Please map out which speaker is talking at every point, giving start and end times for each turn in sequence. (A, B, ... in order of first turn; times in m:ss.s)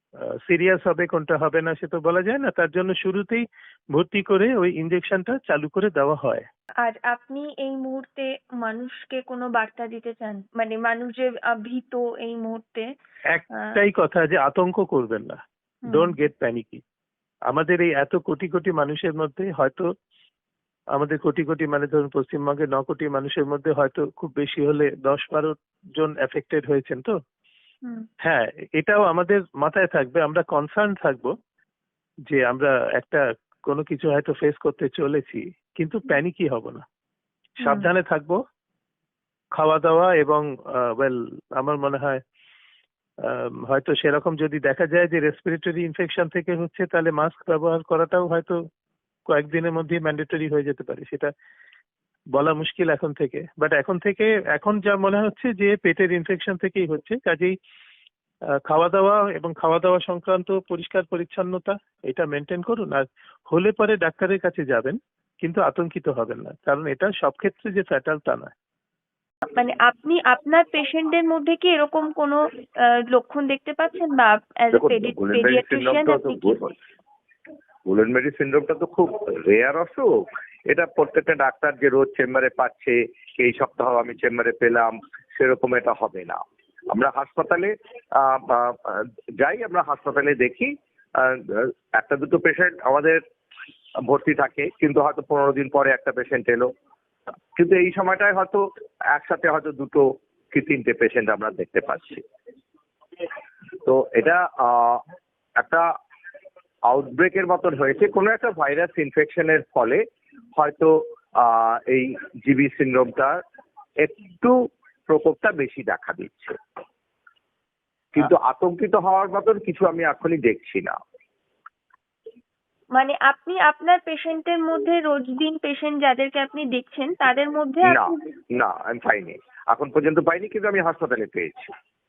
0:00.3-0:06.5 A
0:06.8-0:12.9 B
0:13.3-0:16.8 A
0:15.9-0:16.2 B
0:17.5-0:19.9 A
0:21.0-0:27.2 A
0:28.2-0:31.3 A
0:32.3-0:36.8 A
0:37.6-0:38.4 A
0:37.6-0:37.9 B
0:39.6-0:42.2 A
0:43.3-0:48.6 A
0:49.3-0:51.3 A
0:52.3-0:57.6 A
0:58.7-1:08.5 A
1:09.5-1:12.4 B
1:13.1-1:16.7 B
1:14.7-1:16.7 C
1:17.9-1:33.2 C
1:34.0-1:36.7 C
1:37.6-1:38.6 C
1:39.1-1:42.2 C
1:43.9-1:45.0 C
1:45.6-1:45.9 C
1:46.9-1:50.0 C
1:50.6-1:53.4 C
1:54.0-1:54.6 C
1:55.1-1:56.6 C
1:58.2-2:01.0 C
2:03.0-2:08.2 B
2:07.8-2:11.7 C